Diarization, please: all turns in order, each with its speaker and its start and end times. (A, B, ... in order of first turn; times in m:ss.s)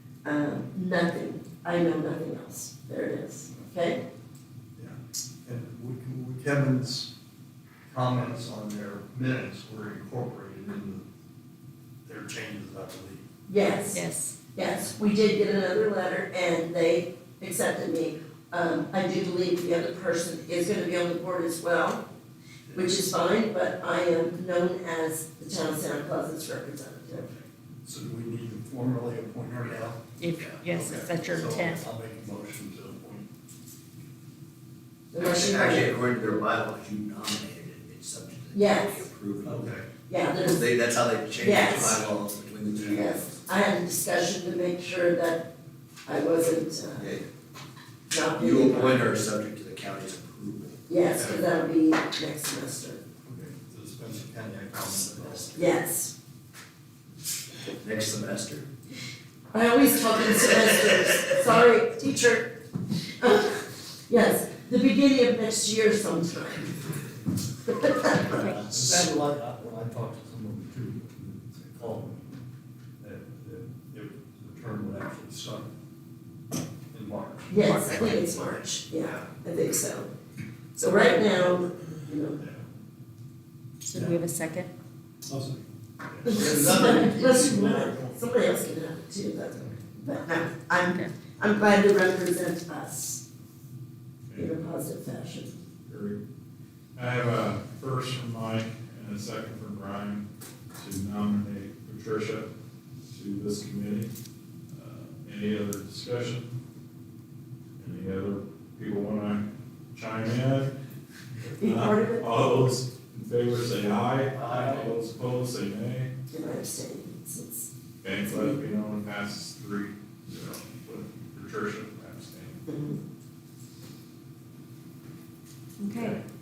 0:00.2-0:04.0 A
0:04.8-0:07.1 B
0:07.9-0:11.0 B
0:12.0-0:13.2 B
0:13.5-0:14.0 A
0:13.9-0:14.4 C
0:14.5-0:22.0 A
0:22.7-0:27.3 A
0:27.8-0:30.0 B
0:30.2-0:31.8 C
0:30.2-0:31.0 D
0:30.7-0:33.3 B
0:35.1-0:36.0 A
0:35.2-0:39.8 D
0:38.5-0:39.0 A
0:39.4-0:39.8 B
0:40.1-0:40.6 A
0:40.4-0:43.3 D
0:41.4-0:42.1 A
0:42.7-0:45.5 A
0:46.0-0:47.1 A
0:47.0-0:47.2 D
0:48.1-0:49.1 A
0:48.4-0:50.8 D
0:50.9-0:53.0 A
0:53.2-0:55.5 B
0:54.8-0:55.5 D
0:55.5-0:56.1 A
0:57.8-0:58.7 D
0:59.5-1:02.6 A
1:03.2-1:06.8 A
1:07.6-1:08.4 A
1:08.2-1:08.6 C
1:08.3-1:12.3 B
1:13.0-1:15.7 B
1:16.9-1:17.5 B
1:17.5-1:20.1 A
1:17.7-1:18.2 D
1:20.8-1:22.4 A
1:20.8-1:21.2 C
1:22.4-1:22.6 B
1:23.8-1:24.7 C
1:25.3-1:28.2 B
1:26.2-1:33.2 A
1:30.8-1:31.1 C
1:34.3-1:35.5 A
1:35.9-1:36.2 E
1:37.0-1:40.2 E
1:40.8-1:42.5 E
1:43.1-1:44.1 E
1:44.7-1:46.5 E
1:47.8-1:50.7 E
1:51.6-1:52.5 A
1:51.6-1:56.1 E
1:54.3-1:54.9 B
1:56.3-1:57.7 A
1:58.0-2:02.6 E
1:58.2-1:58.6 A
2:02.7-2:03.0 A
2:05.8-2:06.2 C